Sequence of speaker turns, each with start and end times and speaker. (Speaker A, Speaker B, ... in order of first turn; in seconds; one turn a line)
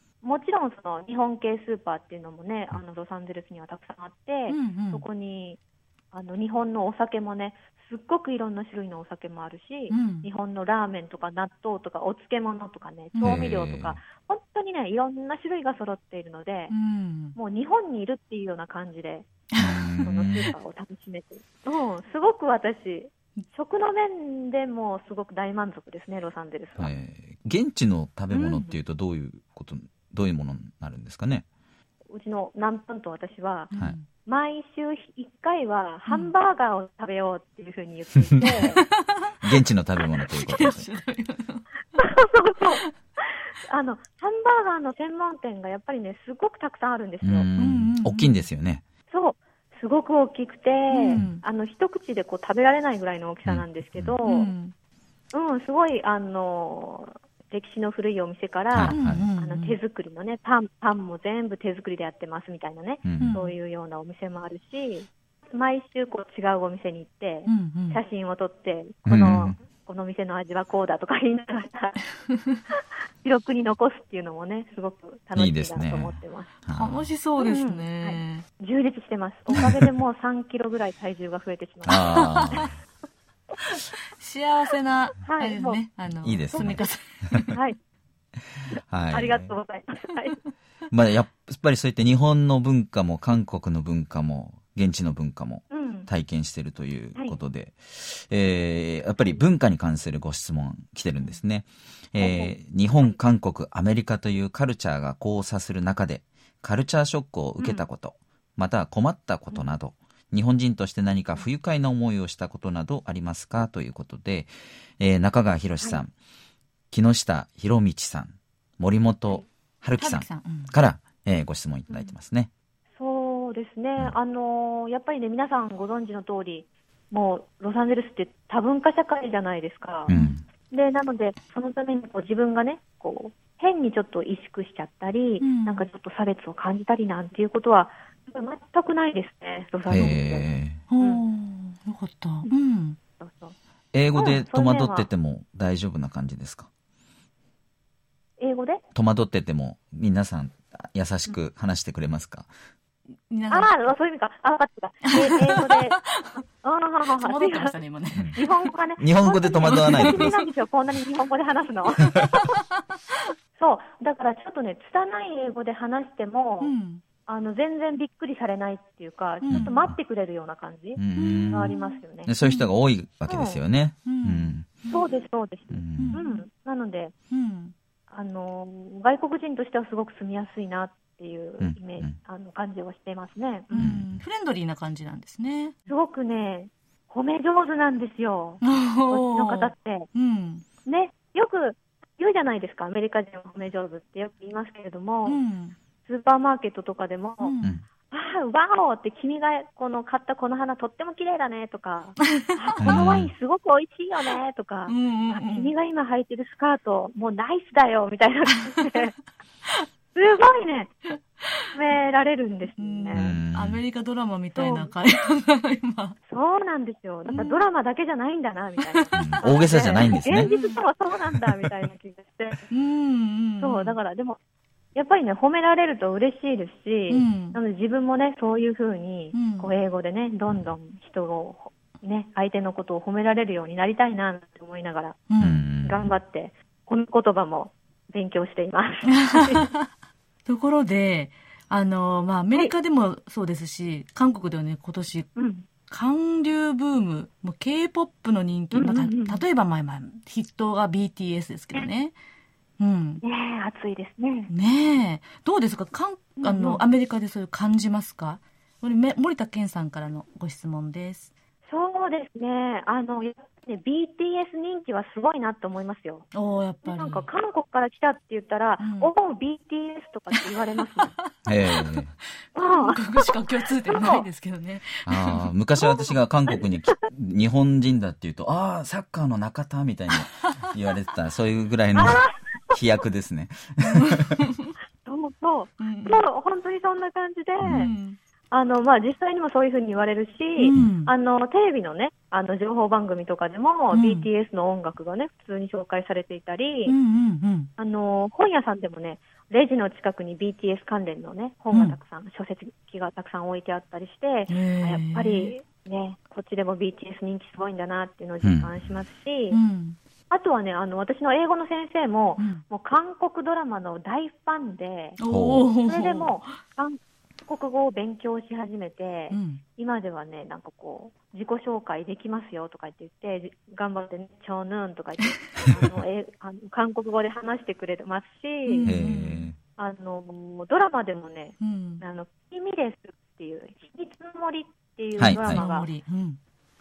Speaker A: 0.2-5.6
Speaker B: 4.5-5.0
Speaker A: 6.1-16.7
Speaker B: 9.9-10.3
Speaker B: 13.1-13.4
Speaker C: 13.2-14.0
Speaker B: 16.7-17.4
Speaker A: 17.4-19.3
Speaker B: 19.5-20.5
Speaker C: 19.6-20.5
Speaker A: 20.0-26.9
Speaker C: 26.8-31.4
Speaker B: 28.3-28.7
Speaker A: 32.1-38.8
Speaker B: 33.7-34.1
Speaker B: 36.1-36.3
Speaker B: 38.4-39.4
Speaker C: 39.4-40.9
Speaker B: 40.0-41.7
Speaker A: 42.0-47.5
Speaker C: 47.2-48.8
Speaker B: 47.6-48.5
Speaker A: 49.1-54.5
Speaker B: 50.9-51.4
Speaker C: 53.5-54.1
Speaker B: 54.2-54.7
Speaker A: 55.3-72.2
Speaker C: 58.7-59.3
Speaker B: 58.9-59.8
Speaker C: 63.0-63.4
Speaker B: 63.2-63.5
Speaker B: 67.5-68.0
Speaker C: 69.0-69.6
Speaker A: 72.7-76.5
Speaker C: 75.3-77.1
Speaker B: 76.7-78.4
Speaker A: 77.4-82.4
Speaker C: 79.5-79.9
Speaker C: 81.8-82.8
Speaker B: 81.9-82.7
Speaker B: 83.6-87.6
Speaker A: 85.2-85.8
Speaker C: 86.2-87.3
Speaker A: 86.5-86.8
Speaker C: 88.7-89.5
Speaker A: 89.1-90.4
Speaker C: 90.9-116.1
Speaker A: 95.7-96.1
Speaker A: 102.2-102.5
Speaker C: 116.9-122.5
Speaker B: 120.0-120.7
Speaker A: 123.0-130.1
Speaker C: 130.1-130.5
Speaker A: 130.7-140.5
Speaker B: 135.4-135.9
Speaker C: 139.9-140.8
Speaker B: 139.9-140.2
Speaker B: 140.9-143.0
Speaker A: 143.2-143.6
Speaker C: 143.9-146.7
Speaker A: 144.1-145.1
Speaker A: 148.4-148.8
Speaker C: 148.9-152.5
Speaker B: 153.3-153.7
Speaker A: 153.5-157.8
Speaker B: 155.3-156.4
Speaker B: 157.2-158.6
Speaker A: 158.3-162.5
Speaker C: 159.0-160.3
Speaker B: 159.7-160.4
Speaker A: 163.6-166.7
Speaker B: 166.6-167.0
Speaker A: 167.2-172.3
Speaker B: 169.4-169.9
Speaker C: 169.5-170.0
Speaker C: 170.9-174.7
Speaker B: 171.1-172.7
Speaker A: 173.2-173.6
Speaker B: 174.0-175.0
Speaker A: 174.9-177.1
Speaker C: 175.7-176.2
Speaker B: 176.0-176.4
Speaker B: 177.3-177.7
Speaker A: 178.1-183.8
Speaker C: 181.6-182.1
Speaker B: 183.7-185.8
Speaker C: 183.8-184.2
Speaker A: 185.9-190.1
Speaker B: 188.6-190.6
Speaker A: 190.8-195.4
Speaker B: 195.2-195.8
Speaker A: 196.0-209.1
Speaker B: 197.4-197.8
Speaker B: 202.5-203.0
Speaker C: 202.8-203.3
Speaker B: 204.9-205.7
Speaker A: 210.1-211.0
Speaker A: 211.7-213.3
Speaker B: 212.8-216.2
Speaker C: 213.1-213.8
Speaker A: 214.5-214.9
Speaker A: 216.3-222.7
Speaker B: 217.2-217.7
Speaker B: 218.9-219.4
Speaker C: 219.1-220.5
Speaker B: 220.1-220.8
Speaker B: 222.7-224.0
Speaker A: 223.6-224.4
Speaker A: 224.9-239.7
Speaker B: 227.1-227.6
Speaker B: 229.3-229.7
Speaker B: 235.3-235.6
Speaker C: 235.4-236.1
Speaker B: 239.1-239.9
Speaker B: 240.5-245.3
Speaker A: 245.3-245.7
Speaker B: 245.9-252.1
Speaker A: 248.7-249.4
Speaker B: 252.8-253.2
Speaker A: 253.2-254.5
Speaker B: 254.5-261.3
Speaker A: 256.4-256.8
Speaker A: 261.7-266.3
Speaker B: 266.3-267.2
Speaker A: 266.8-271.1
Speaker B: 268.8-269.1
Speaker B: 270.9-275.5
Speaker C: 271.4-272.1
Speaker A: 272.6-273.0
Speaker A: 273.8-274.2
Speaker C: 275.0-284.4
Speaker A: 281.9-282.8
Speaker B: 283.8-284.7
Speaker A: 285.0-287.9
Speaker B: 285.8-286.2
Speaker C: 287.6-287.9
Speaker B: 287.7-288.2
Speaker A: 288.5-296.9
Speaker B: 290.6-291.1
Speaker B: 293.9-294.3
Speaker B: 296.9-297.7
Speaker A: 297.8-309.6
Speaker B: 301.7-302.0
Speaker B: 304.5-305.5
Speaker C: 308.4-309.0
Speaker B: 309.5-310.0
Speaker A: 310.3-315.2
Speaker B: 312.4-312.6
Speaker B: 315.2-316.5
Speaker C: 315.3-315.7
Speaker A: 315.9-328.9
Speaker B: 319.3-319.6
Speaker B: 328.6-329.5
Speaker C: 328.8-329.6
Speaker A: 329.8-335.9
Speaker B: 331.6-332.0
Speaker C: 335.2-335.6
Speaker B: 335.2-336.4